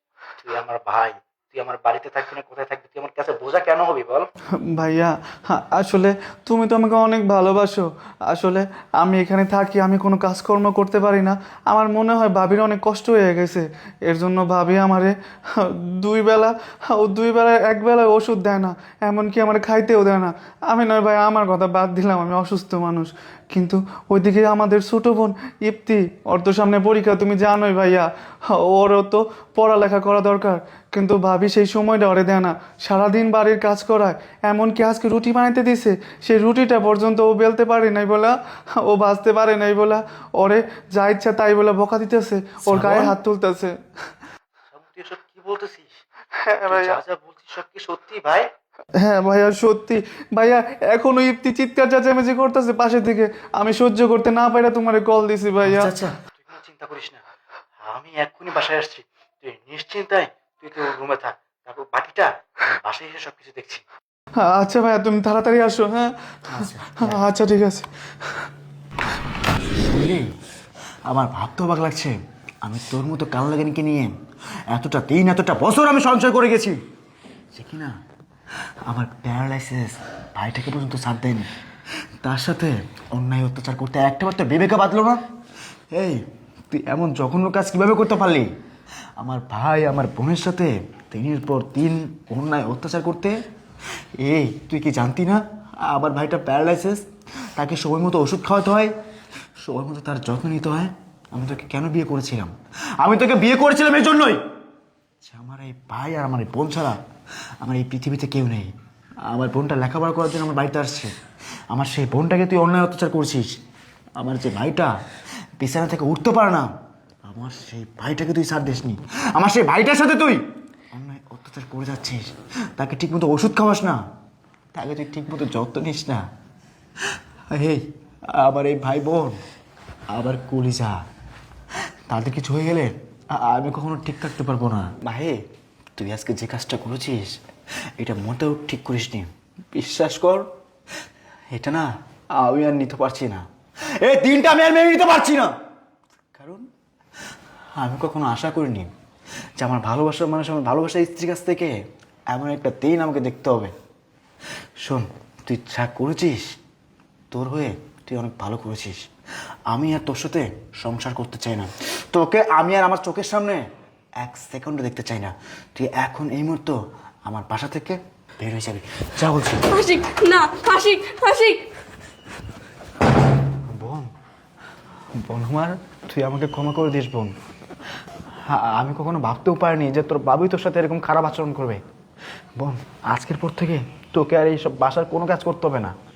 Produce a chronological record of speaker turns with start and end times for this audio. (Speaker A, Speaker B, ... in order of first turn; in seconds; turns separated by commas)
Speaker A: 0.5-4.2, Speaker B: 1.5-2.7, Speaker C: 4.7-43.7, Speaker B: 42.7-43.1, Speaker A: 44.8-45.8, Speaker C: 46.4-47.0, Speaker A: 46.7-48.5, Speaker C: 49.0-55.9, Speaker B: 55.6-56.9, Speaker A: 56.5-57.2, Speaker B: 57.9-59.5, Speaker A: 57.9-62.2, Speaker B: 60.2-62.1, Speaker A: 62.8-63.7, Speaker B: 62.9-63.7, Speaker C: 64.4-66.1, Speaker B: 66.5-67.2, Speaker C: 67.0-67.9, Speaker B: 69.6-70.3, Speaker B: 71.1-74.1, Speaker B: 74.7-76.8, Speaker B: 77.5-77.9, Speaker B: 78.8-81.5, Speaker B: 82.2-85.2, Speaker B: 85.9-88.5, Speaker B: 89.2-93.4, Speaker B: 94.2-97.0, Speaker B: 97.5-98.9, Speaker B: 99.6-104.4, Speaker B: 105.2-107.0, Speaker B: 107.6-108.7, Speaker B: 109.2-111.1, Speaker B: 111.7-113.5, Speaker B: 114.2-114.9, Speaker B: 115.6-116.7, Speaker B: 117.2-120.4, Speaker B: 120.9-122.2, Speaker B: 122.8-124.0, Speaker B: 124.7-126.2, Speaker B: 127.1-129.4, Speaker B: 130.1-131.0, Speaker B: 132.1-135.4, Speaker B: 136.0-137.4, Speaker B: 138.0-140.5, Speaker B: 141.5-143.4, Speaker B: 144.0-145.5, Speaker B: 146.3-146.6, Speaker B: 147.8-148.9, Speaker B: 149.6-151.7, Speaker B: 152.3-153.7, Speaker B: 154.8-156.4, Speaker B: 157.3-159.0, Speaker B: 159.7-163.6, Speaker B: 164.2-169.6, Speaker D: 169.7-171.6, Speaker B: 173.7-174.1, Speaker B: 175.2-177.3, Speaker B: 178.5-181.8, Speaker B: 182.6-185.9